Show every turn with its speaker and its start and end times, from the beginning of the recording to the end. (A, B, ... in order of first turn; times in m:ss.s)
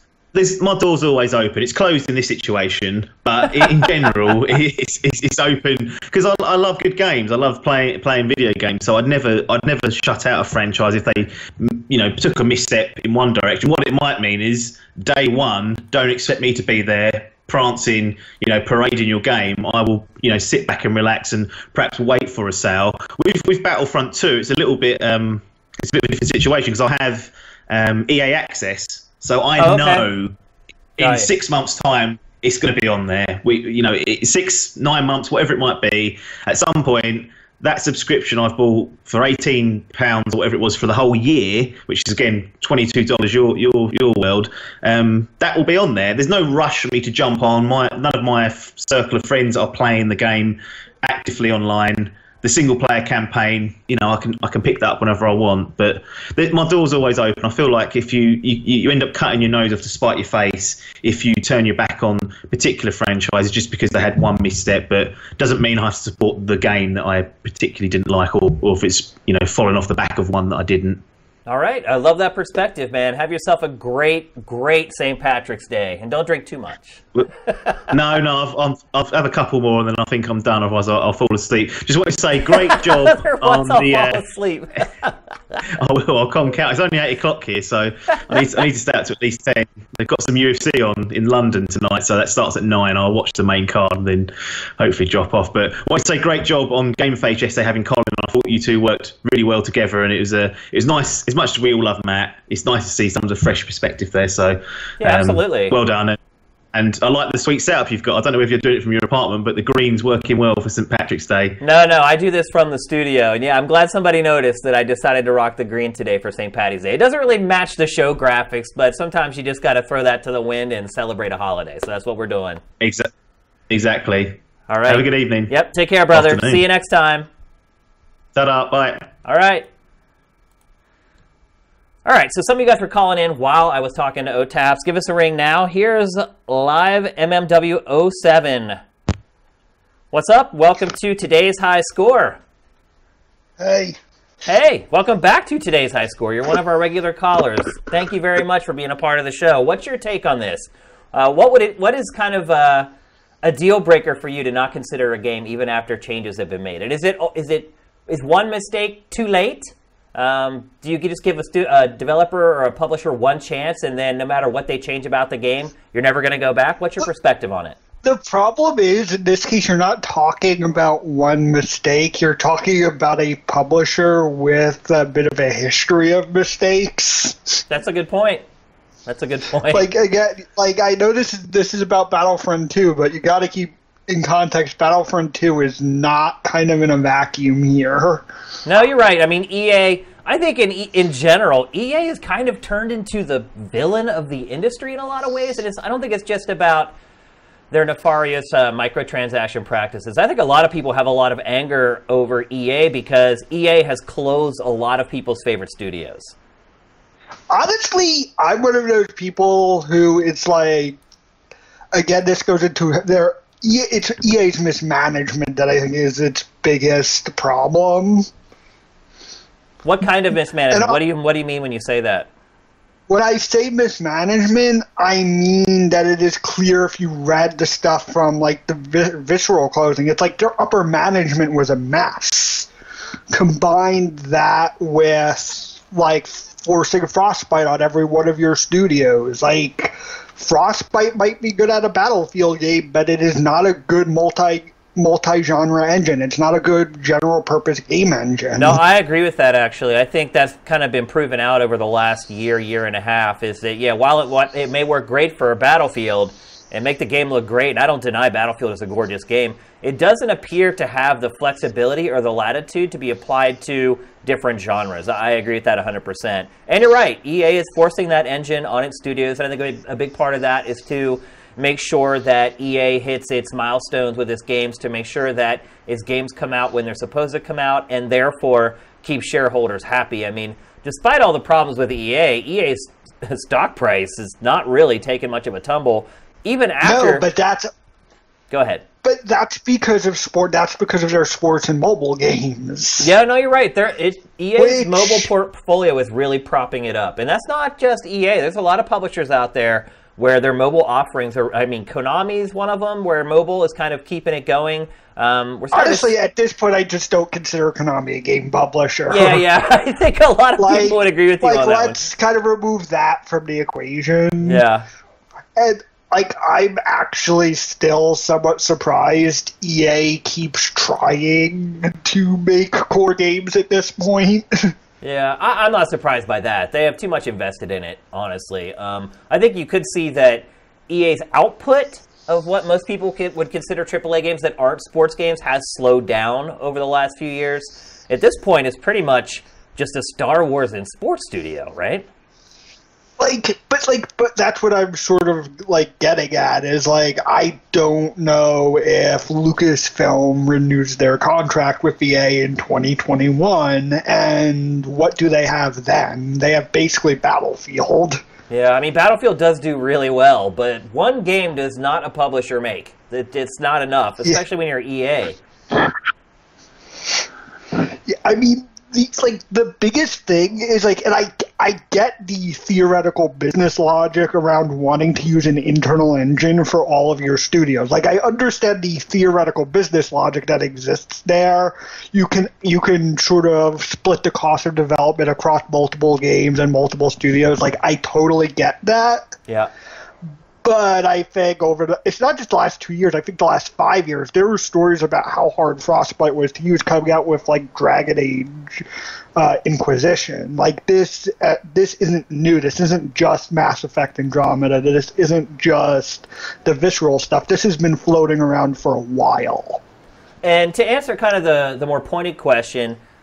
0:00.3-0:30.4 A
0:29.6-0:30.1 B
0:31.0-1:11.0 A
0:31.0-0:31.3 B
1:11.4-1:17.8 B
1:17.9-1:24.2 A
1:22.5-1:25.1 B
1:25.7-1:46.2 A
1:45.0-1:45.7 B
1:46.7-1:51.6 A
1:51.6-2:02.6 B
2:02.8-2:03.1 A
2:03.7-2:05.5 A
2:04.7-2:07.3 B
2:06.1-2:06.6 A
2:08.3-2:09.1 A
2:09.2-2:09.7 B
2:12.0-2:18.8 B
2:20.1-2:22.4 B
2:23.6-2:24.0 C
2:24.4-2:32.9 B
2:33.4-2:47.8 B
2:48.0-2:57.6 C
2:57.7-2:58.4 B
2:59.1-2:59.9 B
2:59.7-3:08.2 C
3:08.6-3:16.9 B
3:17.7-3:26.3 B
3:27.5-3:31.0 C
3:31.9-3:38.3 C
3:39.8-3:42.3 B
3:40.7-3:41.0 C
3:43.1-3:52.7 C
3:53.3-4:08.8 C
4:08.5-4:47.2 B
4:46.8-4:47.7 C
4:48.5-4:48.8 B
4:49.0-4:53.1 C
4:53.0-5:06.1 B
4:54.6-4:55.3 C
5:05.7-5:09.4 C
5:09.1-5:12.0 B
5:10.6-5:14.6 C
5:14.4-5:14.8 B
5:15.6-5:24.7 C
5:25.0-5:42.1 B
5:43.2-5:58.2 C
5:58.5-6:05.4 B
6:08.0-6:29.3 C
6:30.6-6:38.8 C
6:39.4-6:49.8 C
6:50.4-6:53.0 B